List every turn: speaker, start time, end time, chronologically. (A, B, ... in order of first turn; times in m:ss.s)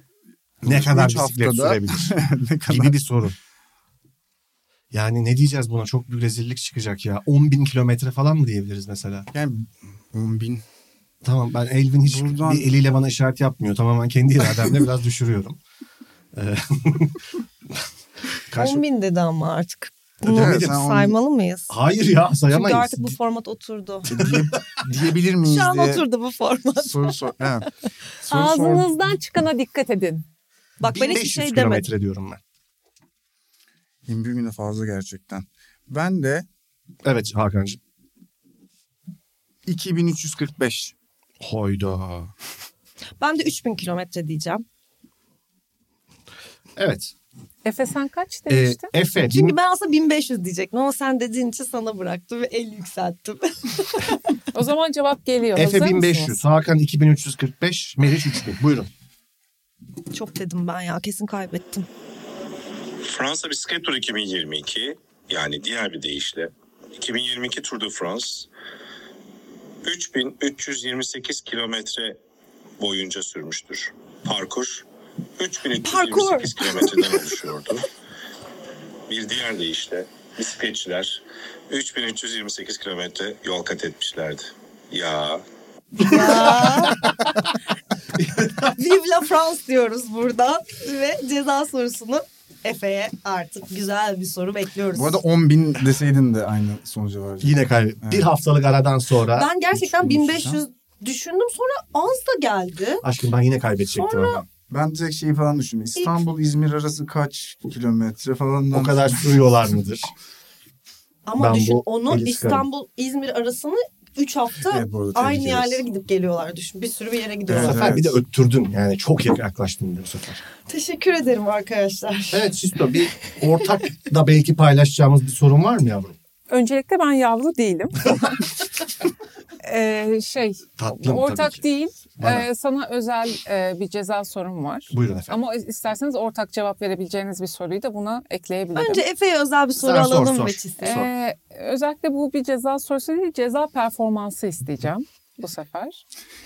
0:00.6-0:03.0 A
0:00.6-0:02.2 B
0:02.7-0:03.4 B
0:04.9-0:09.3 B
0:09.3-0:10.6 A
0:11.2-0:15.6 B
0:12.0-0:12.7 A
0:16.3-0:17.2 B
0:18.5-0:18.8 B
0:18.6-0:21.7 C
0:20.2-0:20.8 B
0:20.3-0:21.1 A
0:21.7-0:23.2 B
0:22.5-0:24.1 C
0:24.0-0:26.0 A
0:24.2-0:24.8 B
0:25.4-0:27.3 C
0:26.8-0:27.7 A
0:28.2-0:28.9 A
0:28.3-0:30.2 D
0:30.8-0:31.9 C
0:30.8-0:32.4 B
0:34.0-0:36.4 A
0:37.0-0:37.8 B
0:39.6-0:40.9 A
0:41.4-0:42.3 B
0:43.2-0:44.6 C
0:46.8-0:47.1 B
0:47.6-0:48.9 D
0:48.5-0:49.6 B
0:49.2-0:54.2 C
0:54.5-0:56.4 D
0:55.6-0:58.9 B
1:00.1-1:01.8 C
1:03.0-1:08.5 E
1:09.8-1:12.2 E
1:12.8-1:14.8 E
1:15.4-1:17.8 E
1:15.8-1:17.1 C
1:19.1-1:25.4 E
1:26.0-1:27.4 B
1:26.0-1:27.0 C
1:28.2-1:28.7 B
1:28.8-1:35.2 C
1:34.9-1:38.3 A
1:37.4-1:39.5 B
1:39.4-1:43.0 C
1:39.7-1:40.6 A
1:43.0-1:44.4 B
1:43.9-1:44.4 C
1:44.5-1:49.2 A
1:48.7-1:50.1 B
1:51.2-1:58.0 C
1:51.4-1:52.6 B
1:54.6-1:55.8 A
1:57.5-1:58.2 A
1:57.6-2:00.4 B
2:00.7-2:02.5 C
2:02.3-2:06.2 B
2:06.5-2:08.6 D
2:09.6-2:19.0 D
2:10.8-2:11.6 B
2:12.2-2:12.5 B
2:14.9-2:15.4 B
2:18.7-2:21.0 C
2:19.8-2:21.1 B
2:20.8-2:26.0 D